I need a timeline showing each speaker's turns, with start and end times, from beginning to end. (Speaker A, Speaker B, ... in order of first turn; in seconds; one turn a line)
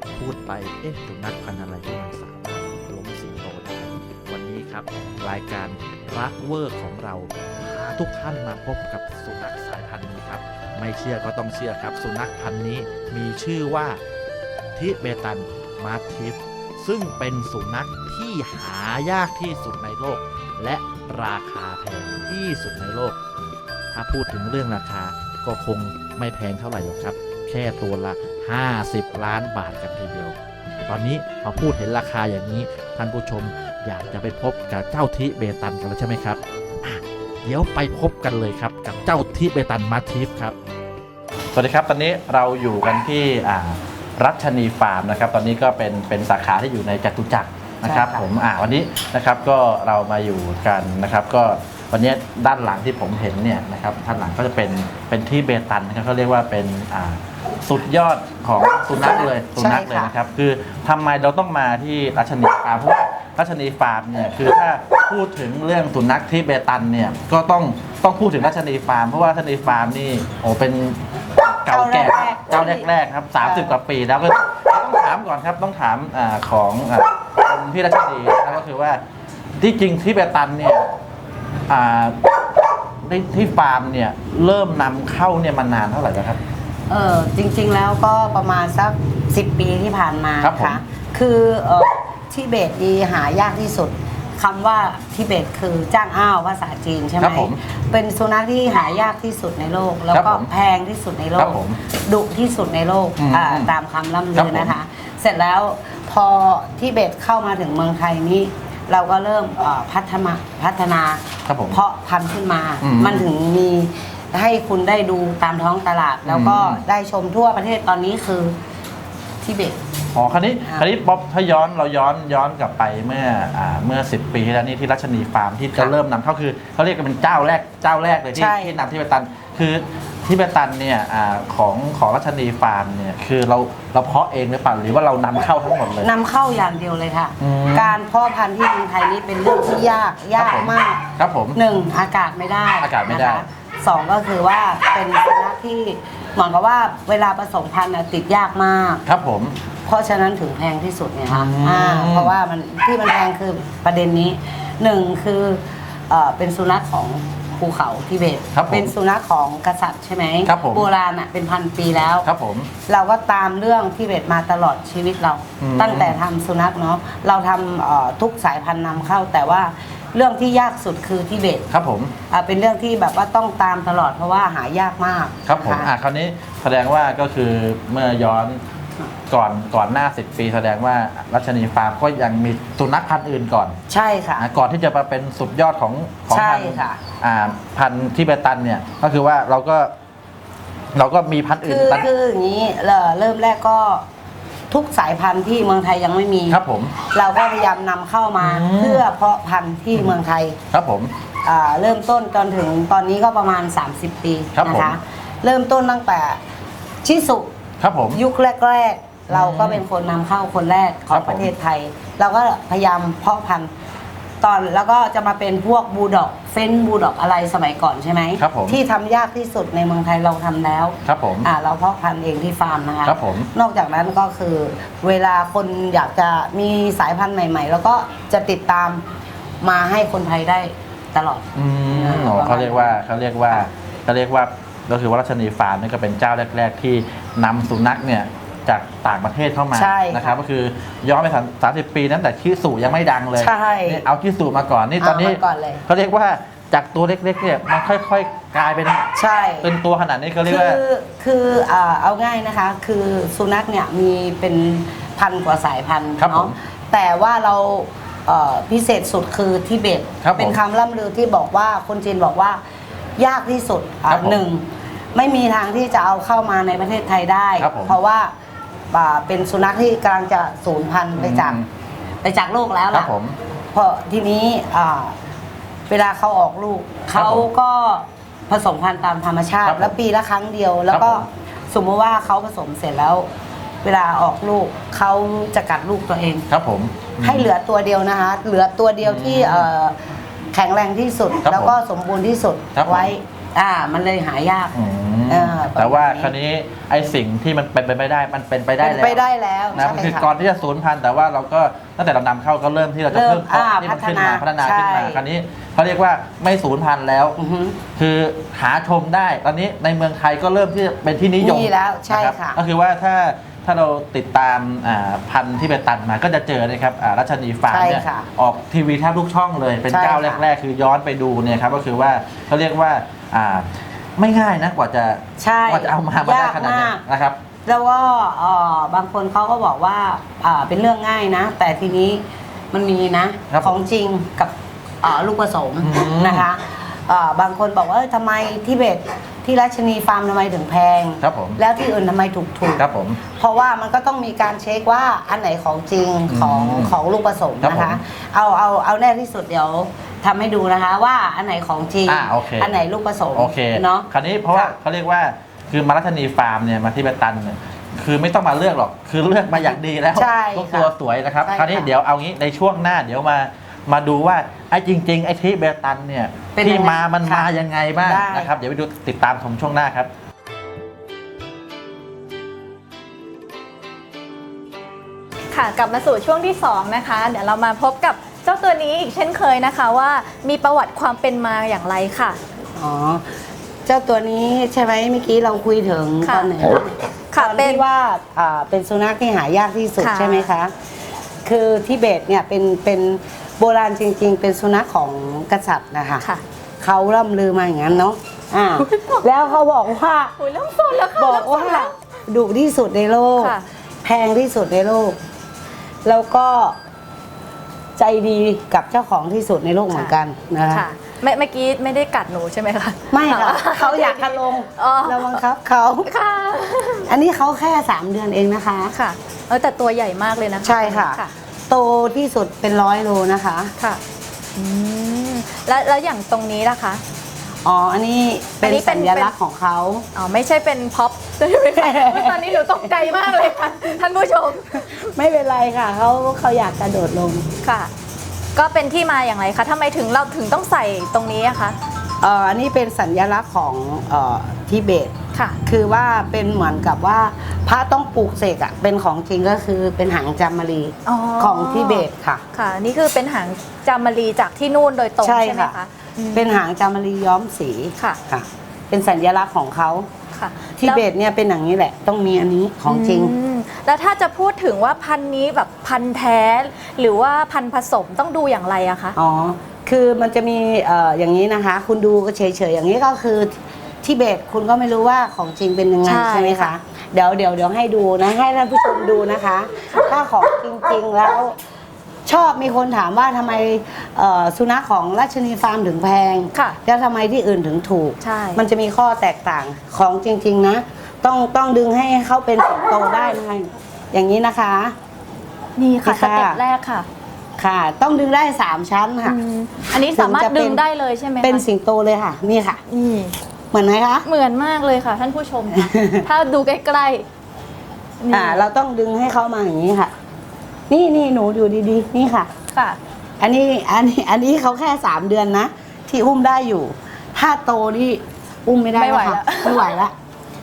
Speaker A: 0.1-14.0
Speaker A: 14.7-23.2
Speaker A: 23.9-30.3
Speaker A: 30.9-40.5
Speaker A: 41.5-79.0
Speaker B: 47.8-48.3
Speaker B: 59.0-60.1
Speaker B: 71.7-72.9
Speaker B: 73.4-73.8
Speaker A: 79.6-80.9
Speaker A: 81.7-82.3
Speaker A: 83.0-86.4
Speaker B: 86.9-118.5
Speaker A: 90.4-90.8
Speaker A: 97.2-97.6
Speaker A: 100.1-100.5
Speaker A: 101.4-101.8
Speaker A: 103.2-103.7
Speaker A: 104.3-104.7
Speaker A: 111.5-111.8
Speaker A: 112.8-113.3
Speaker A: 116.2-116.8
Speaker B: 119.4-119.8
Speaker A: 120.1-136.1
Speaker B: 128.3-128.8
Speaker B: 136.0-149.0
Speaker A: 137.4-138.0
Speaker A: 140.3-141.6
Speaker A: 142.8-143.4
Speaker A: 149.1-149.5
Speaker B: 149.8-162.3
Speaker A: 151.3-152.3
Speaker A: 158.5-158.9
Speaker A: 160.4-160.9
Speaker A: 162.2-162.7
Speaker B: 162.9-171.6
Speaker A: 165.6-166.2
Speaker A: 171.7-172.1
Speaker B: 172.3-175.9
Speaker A: 175.4-178.6
Speaker A: 179.3-183.8
Speaker B: 183.9-184.4
Speaker A: 184.4-189.9
Speaker B: 186.3-187.0
Speaker A: 190.9-192.1
Speaker B: 191.6-194.0
Speaker B: 194.7-200.6
Speaker A: 196.5-196.9
Speaker A: 198.4-199.0
Speaker A: 200.7-201.1
Speaker B: 201.4-206.4
Speaker A: 204.5-204.9
Speaker B: 207.0-207.5
Speaker A: 207.8-208.2
Speaker B: 208.1-213.7
Speaker A: 209.3-209.8
Speaker A: 211.1-211.5
Speaker B: 214.4-229.0
Speaker A: 218.4-218.8
Speaker A: 221.0-221.5
Speaker A: 223.0-223.5
Speaker B: 229.6-233.7
Speaker A: 231.5-249.1
Speaker B: 239.7-240.4
Speaker B: 243.4-244.0
Speaker B: 245.0-245.8
Speaker B: 249.1-249.7
Speaker A: 249.6-250.8
Speaker B: 250.4-262.6
Speaker A: 256.2-256.5
Speaker A: 260.2-260.6
Speaker B: 263.2-268.3
Speaker A: 264.1-264.4
Speaker A: 267.6-268.0
Speaker B: 268.9-271.6
Speaker A: 271.2-271.7
Speaker B: 272.2-273.1
Speaker A: 272.9-273.4
Speaker B: 273.7-275.1
Speaker B: 275.9-283.3
Speaker A: 277.1-277.5
Speaker A: 279.6-279.9
Speaker A: 280.9-281.2
Speaker B: 283.8-286.5
Speaker A: 286.5-287.5
Speaker B: 287.2-289.9
Speaker A: 289.0-289.7
Speaker B: 290.5-294.8
Speaker A: 291.4-291.8
Speaker A: 292.8-293.1
Speaker A: 294.7-299.2
Speaker B: 295.3-296.3
Speaker B: 298.8-300.3
Speaker A: 299.7-307.4
Speaker B: 303.1-305.2
Speaker B: 307.4-307.8
Speaker A: 307.9-327.4
Speaker B: 311.4-312.6
Speaker B: 317.7-318.3
Speaker B: 319.9-320.4
Speaker B: 325.4-327.0
Speaker B: 327.6-354.7
Speaker A: 335.8-336.5
Speaker A: 341.2-341.6
Speaker A: 342.8-343.2
Speaker A: 346.3-346.9
Speaker A: 347.6-348.0
Speaker A: 352.1-352.7
Speaker A: 353.3-370.1
Speaker B: 360.1-360.9
Speaker B: 361.4-361.9
Speaker B: 366.5-367.5
Speaker B: 368.0-368.5
Speaker C: 375.5-382.4
Speaker B: 382.8-383.2
Speaker B: 383.9-390.7
Speaker C: 386.2-386.5
Speaker C: 387.3-387.8
Speaker C: 390.0-390.5
Speaker B: 391.4-396.2
Speaker B: 396.8-400.3
Speaker C: 398.8-399.4
Speaker C: 400.4-401.9
Speaker B: 401.1-405.2
Speaker C: 403.4-403.6
Speaker B: 406.0-406.8
Speaker B: 408.0-410.8
Speaker C: 410.7-415.4
Speaker B: 413.1-416.1
Speaker C: 416.1-417.1
Speaker B: 417.0-418.9
Speaker C: 418.9-421.3
Speaker B: 420.6-423.7
Speaker C: 424.6-427.0
Speaker B: 427.6-430.1
Speaker C: 428.6-429.3
Speaker C: 430.1-435.1
Speaker B: 431.8-432.9
Speaker B: 434.7-437.5
Speaker C: 437.6-437.9
Speaker C: 438.5-441.8
Speaker B: 442.2-445.1
Speaker B: 445.6-452.4
Speaker C: 451.1-456.6
Speaker B: 455.2-455.8
Speaker B: 456.3-460.1
Speaker C: 460.3-461.0
Speaker B: 460.8-463.3
Speaker C: 462.9-469.1
Speaker B: 469.1-481.5
Speaker C: 476.0-476.7
Speaker B: 482.2-494.9
Speaker C: 488.2-488.6
Speaker C: 495.8-497.1
Speaker B: 496.0-496.6
Speaker B: 497.6-499.4
Speaker C: 499.2-501.6
Speaker B: 500.1-500.8
Speaker B: 501.4-502.8
Speaker C: 502.9-503.3
Speaker B: 503.7-504.3
Speaker C: 504.2-507.2
Speaker B: 505.8-506.2
Speaker C: 508.2-508.6
Speaker B: 508.3-510.1
Speaker B: 510.9-512.5
Speaker C: 512.7-513.0
Speaker B: 513.4-520.1
Speaker C: 518.9-520.0